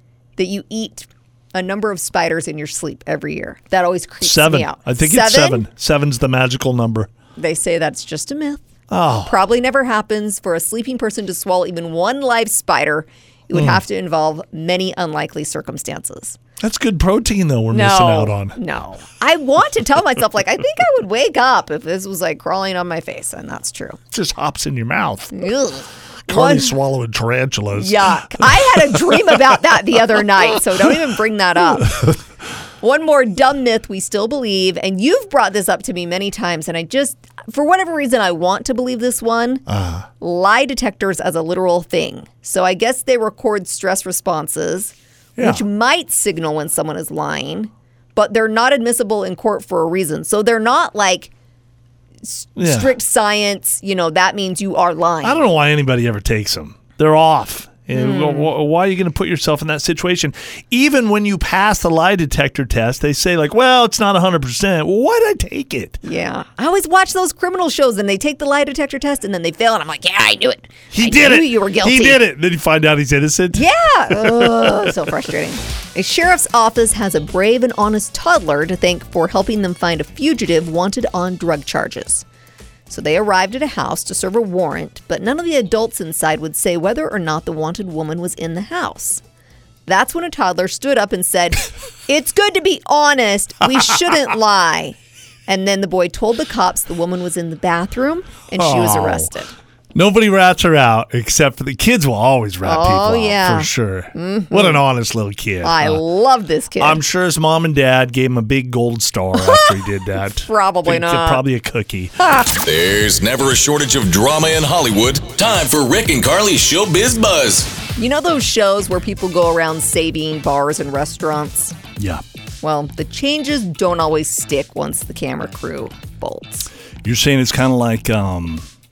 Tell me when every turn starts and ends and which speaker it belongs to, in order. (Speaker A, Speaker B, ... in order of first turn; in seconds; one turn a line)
Speaker A: 0.4-5.6
Speaker B: 4.2-7.1
Speaker A: 7.4-8.6
Speaker B: 8.9-9.4
Speaker A: 9.2-16.4
Speaker B: 13.5-13.8
Speaker B: 16.6-18.6
Speaker A: 17.7-24.0
Speaker B: 24.1-25.5
Speaker A: 25.3-26.7
Speaker B: 26.2-29.4
Speaker A: 27.7-32.2
Speaker A: 32.8-39.6
Speaker B: 39.7-40.1
Speaker A: 40.2-51.3
Speaker B: 45.4-45.6
Speaker A: 52.2-55.4
Speaker B: 52.6-53.0
Speaker B: 55.2-66.0
Speaker A: 57.9-58.5
Speaker A: 66.0-72.2
Speaker B: 70.9-74.9
Speaker A: 73.5-82.2
Speaker A: 82.9-89.2
Speaker A: 89.8-99.5
Speaker B: 98.5-99.3
Speaker B: 99.9-106.0
Speaker A: 102.6-104.8
Speaker A: 105.6-107.0
Speaker B: 106.8-112.3
Speaker A: 109.4-111.4
Speaker A: 112.2-112.5
Speaker C: 112.6-117.7
Speaker A: 118.0-121.8
Speaker B: 122.0-122.2
Speaker A: 122.6-126.7
Speaker B: 127.0-128.7